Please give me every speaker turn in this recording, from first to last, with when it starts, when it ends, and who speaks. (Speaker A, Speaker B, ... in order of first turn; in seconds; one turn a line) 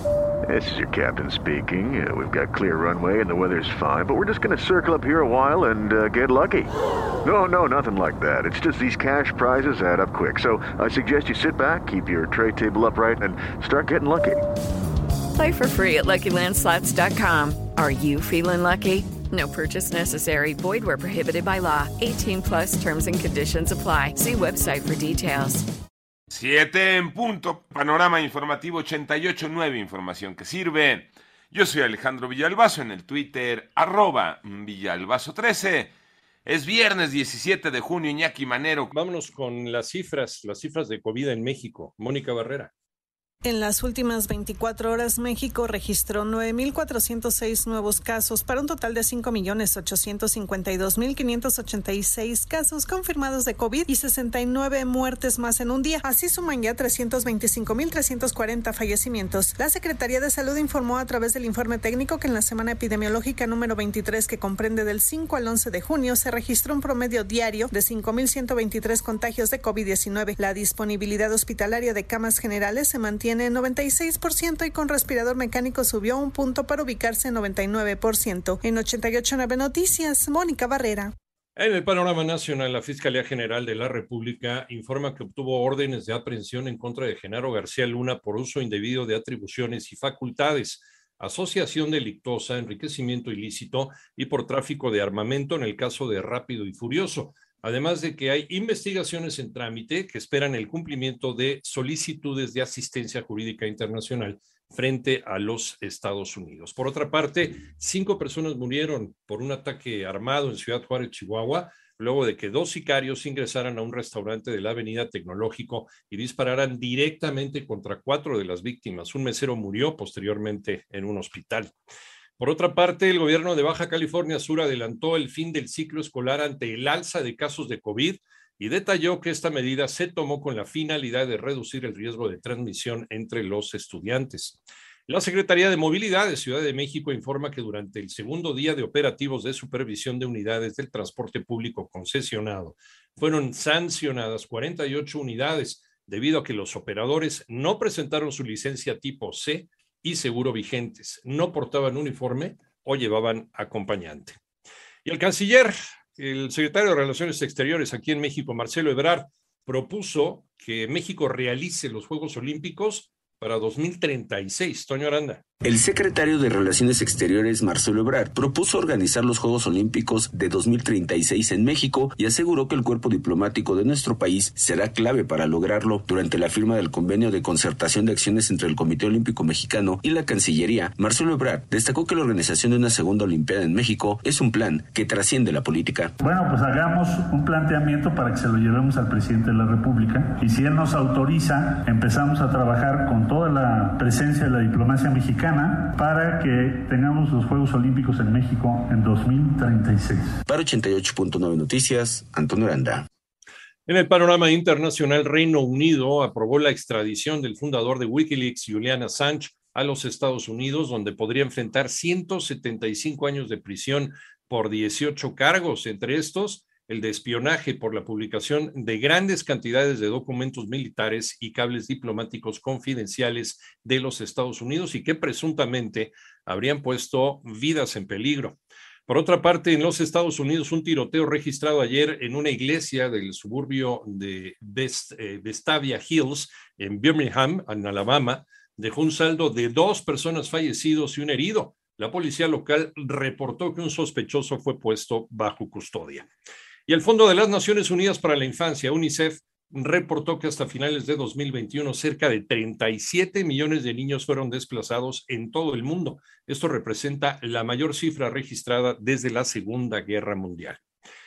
Speaker A: 0.5-6.7
Speaker A: 7.2-14.4
Speaker B: 15.3-25.6
Speaker C: 26.3-35.9
Speaker C: 36.5-38.9
Speaker D: 38.9-42.7
Speaker E: 43.4-81.1
Speaker D: 81.5-121.7
Speaker D: 122.4-154.4
Speaker D: 155.0-165.4
Speaker F: 165.6-186.1
Speaker G: 186.2-200.2
Speaker F: 200.5-203.1
Speaker D: 203.9-246.2
Speaker D: 246.9-260.8